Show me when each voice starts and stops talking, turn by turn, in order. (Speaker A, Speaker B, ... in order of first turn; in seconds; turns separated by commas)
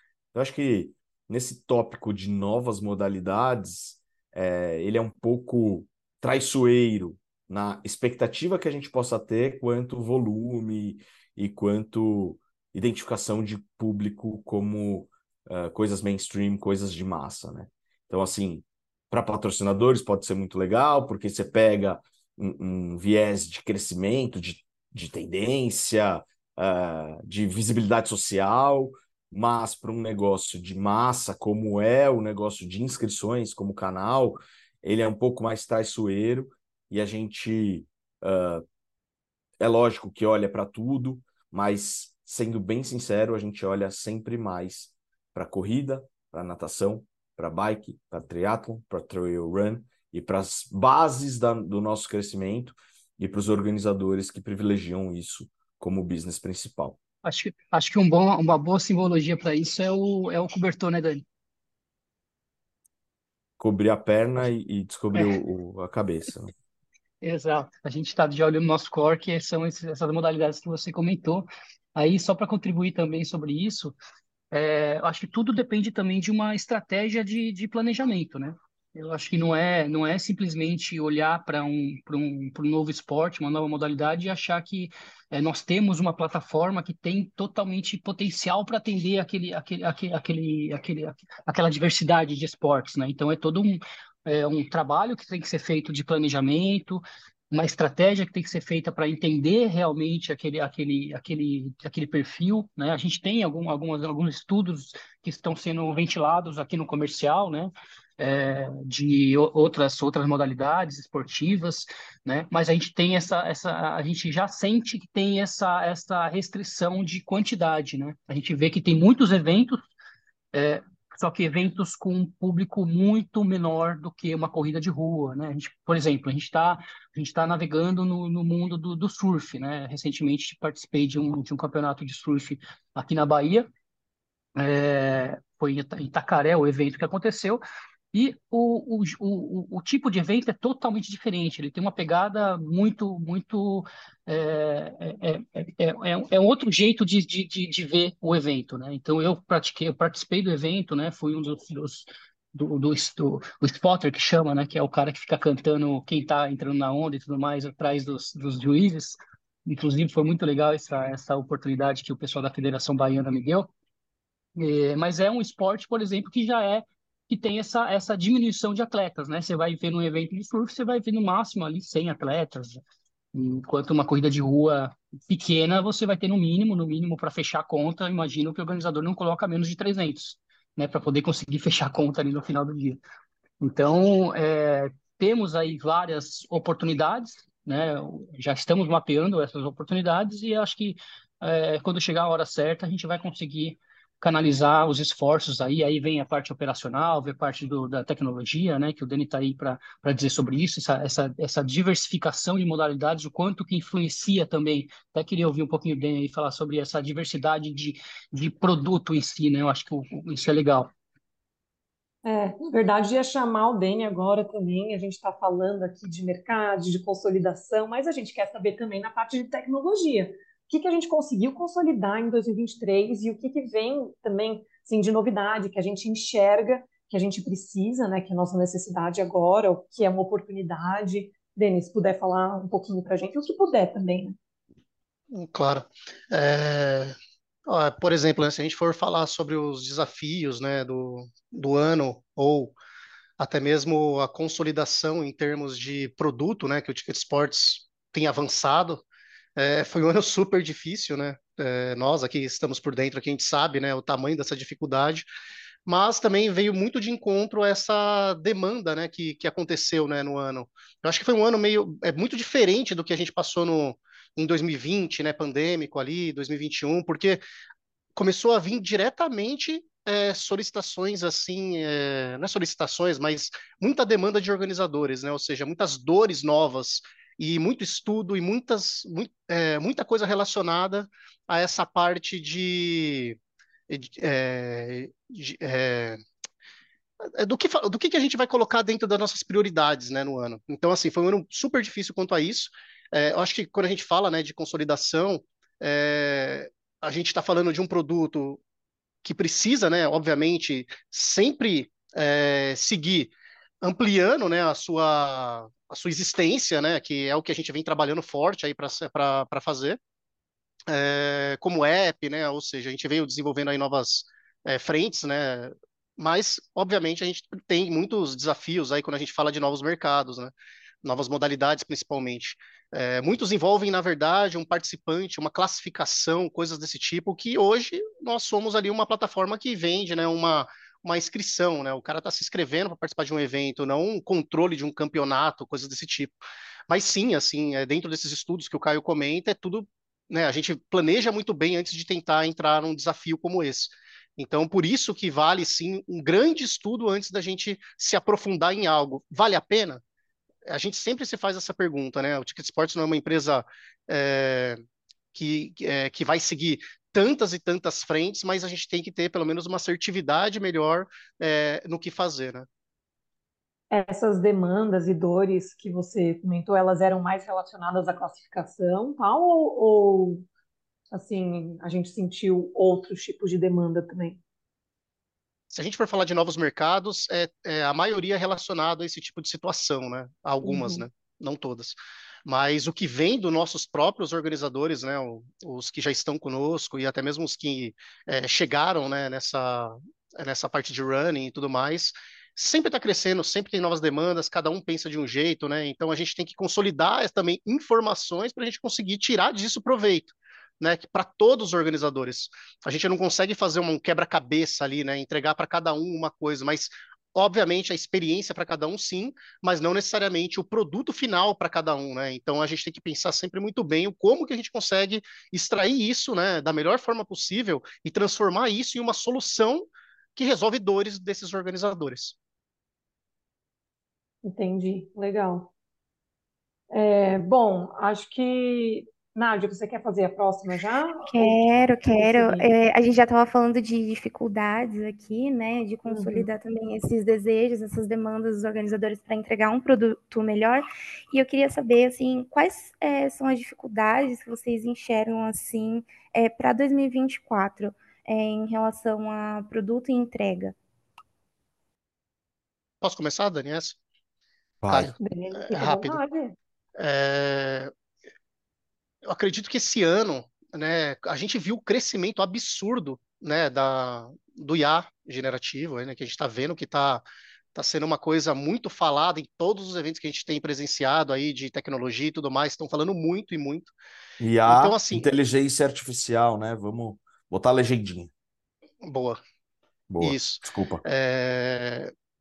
Speaker A: 0.3-38.6, Speaker A: 39.6-57.0, Speaker B: 57.2-61.2, Speaker A: 63.6-66.5, Speaker B: 67.2-73.9, Speaker B: 74.5-119.8, Speaker B: 120.5-133.7, Speaker B: 134.6-137.6, Speaker B: 138.1-163.7, Speaker B: 164.6-172.8, Speaker B: 173.3-183.0, Speaker B: 183.6-210.9, Speaker C: 212.2-234.3, Speaker D: 235.3-237.1, Speaker D: 237.7-242.7, Speaker D: 243.4-249.0, Speaker D: 249.6-255.3, Speaker D: 255.8-267.4, Speaker D: 268.1-283.4, Speaker D: 283.9-286.2, Speaker D: 287.4-298.6, Speaker D: 299.2-310.0, Speaker D: 310.9-336.3, Speaker D: 336.9-350.0, Speaker D: 350.7-354.8, Speaker D: 355.3-362.6, Speaker C: 363.9-370.4, Speaker C: 371.1-374.4, Speaker D: 375.7-422.3, Speaker C: 380.6-381.0, Speaker C: 424.4-425.7, Speaker C: 426.9-431.6, Speaker E: 431.3-450.7, Speaker C: 432.1-432.7, Speaker C: 436.1-436.5, Speaker D: 453.0-454.0, Speaker A: 454.8-455.1, Speaker C: 455.1-456.5, Speaker D: 455.7-456.2, Speaker D: 457.0-457.9, Speaker D: 459.3-467.2, Speaker D: 467.7-473.9, Speaker A: 474.4-478.3, Speaker D: 474.7-475.3, Speaker D: 479.0-479.4, Speaker A: 480.1-481.0, Speaker D: 480.2-482.1